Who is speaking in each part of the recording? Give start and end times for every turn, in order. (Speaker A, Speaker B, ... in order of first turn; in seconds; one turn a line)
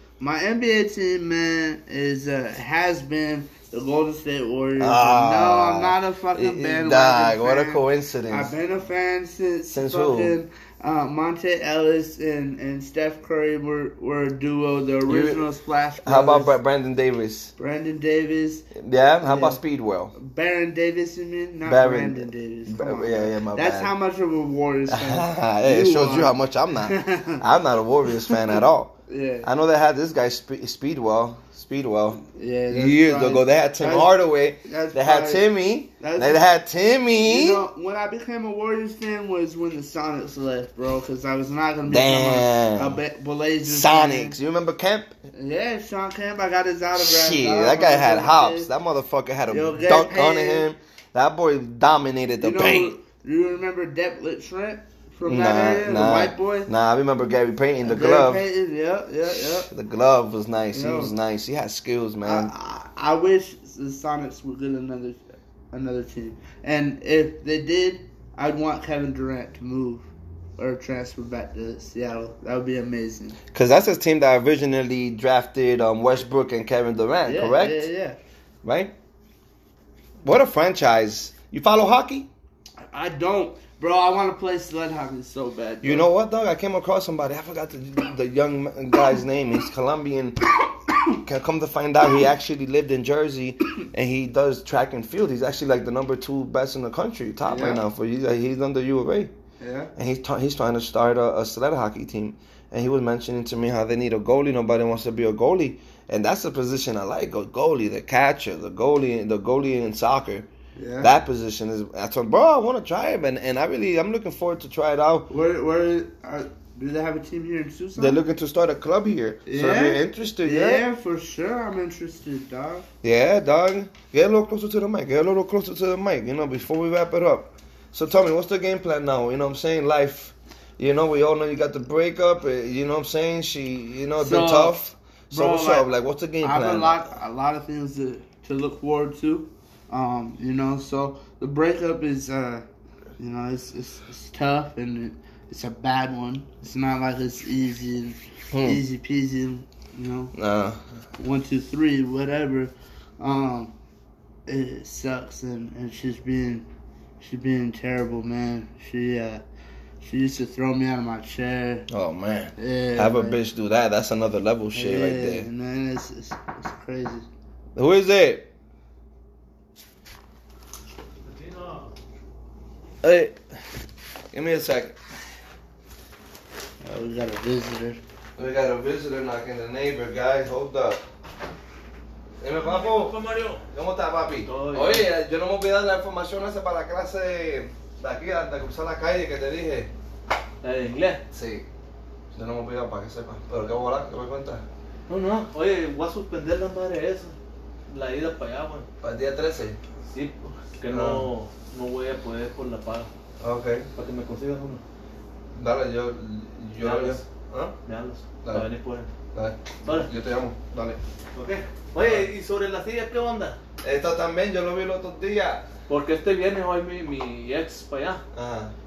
Speaker A: 0.2-16.6
Speaker B: 4.8-8.5
Speaker B: 9.7-10.3
Speaker B: 15.1-15.4
Speaker B: 16.0-17.5
Speaker A: 17.6-18.6
Speaker B: 18.7-20.1
Speaker A: 19.2-19.6
Speaker A: 20.1-27.4
Speaker B: 21.6-23.9
Speaker B: 24.9-37.7
Speaker A: 29.1-29.5
Speaker A: 32.3-36.5
Speaker A: 37.1-44.4
Speaker B: 41.9-43.0
Speaker B: 43.6-45.1
Speaker A: 45.3-48.7
Speaker B: 46.9-52.9
Speaker A: 49.5-50.7
Speaker A: 52.4-56.7
Speaker B: 55.2-58.4
Speaker A: 57.8-59.7
Speaker B: 59.2-62.5
Speaker A: 60.7-61.1
Speaker A: 62.2-73.3
Speaker B: 73.5-77.9
Speaker A: 77.2-78.2
Speaker B: 78.6-78.9
Speaker B: 80.2-82.3
Speaker A: 82.8-86.1
Speaker B: 85.8-90.4
Speaker B: 91.2-99.3
Speaker A: 97.5-97.8
Speaker A: 99.6-99.9
Speaker B: 100.0-110.5
Speaker A: 110.7-111.1
Speaker B: 111.0-115.3
Speaker A: 115.3-118.2
Speaker B: 118.0-120.8
Speaker A: 119.5-122.8
Speaker B: 123.0-137.1
Speaker A: 134.2-134.8
Speaker A: 135.3-135.9
Speaker A: 136.4-142.6
Speaker A: 143.2-150.3
Speaker B: 148.5-148.8
Speaker B: 150.3-150.8
Speaker A: 151.2-153.7
Speaker A: 154.5-156.7
Speaker A: 157.2-159.4
Speaker A: 160.0-161.9
Speaker B: 161.9-165.5
Speaker A: 162.6-163.4
Speaker A: 164.7-167.3
Speaker B: 167.8-168.5
Speaker C: 171.2-171.9
Speaker B: 173.0-173.4
Speaker B: 174.3-175.0
Speaker A: 176.8-178.0
Speaker B: 178.4-181.0
Speaker B: 182.4-183.2
Speaker C: 182.5-183.6
Speaker B: 183.7-189.9
Speaker C: 184.4-185.1
Speaker C: 190.6-191.2
Speaker B: 191.3-191.7
Speaker B: 192.3-194.6
Speaker C: 195.1-197.3
Speaker C: 197.9-198.9
Speaker B: 199.0-199.8
Speaker C: 200.1-203.1
Speaker B: 200.9-201.3
Speaker B: 203.4-203.9
Speaker C: 203.9-204.8
Speaker B: 205.5-207.8
Speaker C: 206.8-207.2
Speaker C: 207.8-209.1
Speaker B: 208.4-208.7
Speaker B: 209.3-211.0
Speaker C: 209.8-210.1
Speaker C: 211.3-213.6
Speaker B: 212.0-212.3
Speaker B: 213.8-215.7
Speaker C: 215.9-218.2
Speaker B: 218.3-218.7